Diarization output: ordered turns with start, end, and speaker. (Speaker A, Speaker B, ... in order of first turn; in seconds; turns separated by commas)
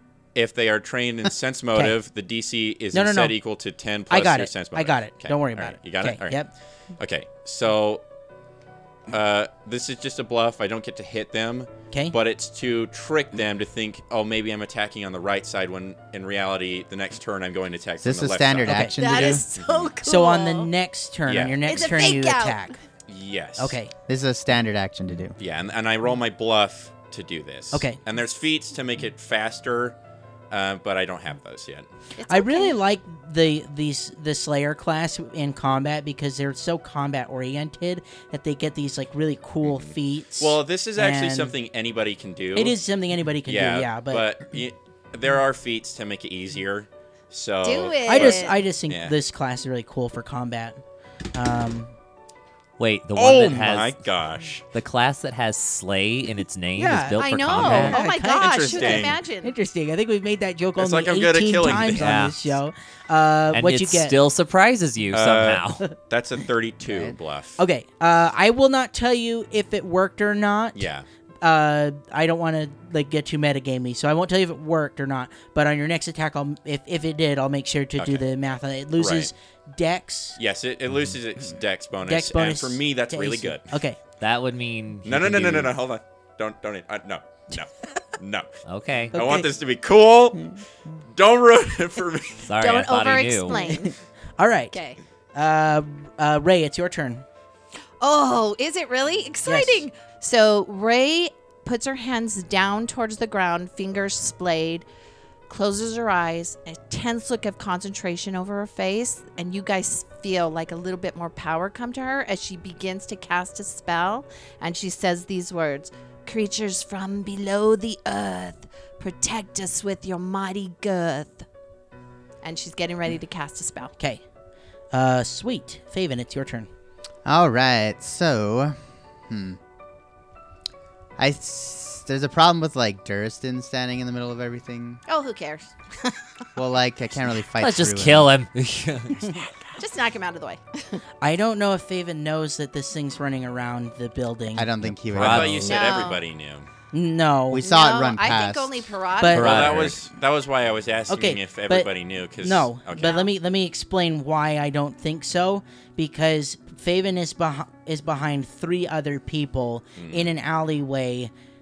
Speaker A: 0.3-8.0, Speaker B: 2.9-3.4, Speaker B: 4.1-6.5, Speaker A: 9.1-19.9, Speaker B: 11.9-12.2, Speaker C: 18.0-19.4, Speaker B: 18.6-19.0, Speaker D: 19.0-20.7, Speaker B: 20.0-22.8, Speaker A: 21.2-22.1, Speaker D: 21.6-22.7, Speaker A: 23.1-23.8, Speaker B: 23.6-23.9, Speaker C: 24.1-25.4, Speaker A: 25.4-30.0, Speaker B: 27.7-28.0, Speaker A: 30.5-31.9, Speaker D: 32.1-32.8, Speaker B: 32.3-41.5, Speaker A: 39.6-42.8, Speaker B: 42.5-44.3, Speaker A: 43.4-49.1, Speaker D: 47.6-48.6, Speaker B: 48.0-50.8, Speaker B: 51.3-51.9, Speaker E: 52.8-54.0, Speaker A: 53.1-54.6, Speaker E: 54.7-58.0, Speaker B: 56.8-64.2, Speaker D: 57.2-59.5, Speaker A: 58.3-59.2, Speaker A: 60.8-62.1, Speaker E: 61.8-62.6, Speaker E: 63.5-65.8, Speaker A: 65.1-67.6, Speaker C: 66.9-67.2, Speaker B: 67.6-70.9, Speaker A: 70.7-71.0, Speaker B: 71.4-80.4, Speaker A: 78.0-78.2, Speaker A: 79.0-79.3, Speaker A: 80.3-83.8, Speaker B: 82.1-84.0, Speaker E: 84.2-85.7, Speaker A: 85.0-88.5, Speaker E: 88.7-89.1, Speaker B: 89.1-89.5, Speaker A: 89.1-90.5, Speaker A: 91.1-92.5, Speaker E: 92.4-93.8, Speaker D: 92.6-94.0, Speaker B: 93.5-94.8, Speaker D: 94.7-95.0, Speaker B: 95.3-97.2, Speaker D: 98.0-104.8, Speaker B: 99.4-99.9, Speaker D: 105.5-121.5, Speaker D: 122.4-123.9, Speaker B: 124.9-126.7, Speaker C: 127.2-128.8, Speaker C: 129.3-129.6, Speaker C: 131.2-135.0, Speaker D: 135.1-136.2, Speaker C: 136.6-138.3, Speaker E: 137.6-139.2, Speaker D: 139.8-141.0, Speaker B: 141.2-144.7, Speaker C: 144.5-146.1, Speaker E: 144.8-145.6, Speaker A: 145.1-146.7, Speaker D: 145.6-146.2, Speaker B: 146.9-147.6, Speaker C: 147.5-148.9, Speaker D: 147.6-149.9, Speaker B: 149.2-149.7, Speaker E: 149.3-150.0, Speaker A: 149.4-153.2, Speaker B: 151.1-161.3, Speaker D: 152.9-153.3, Speaker A: 159.9-160.3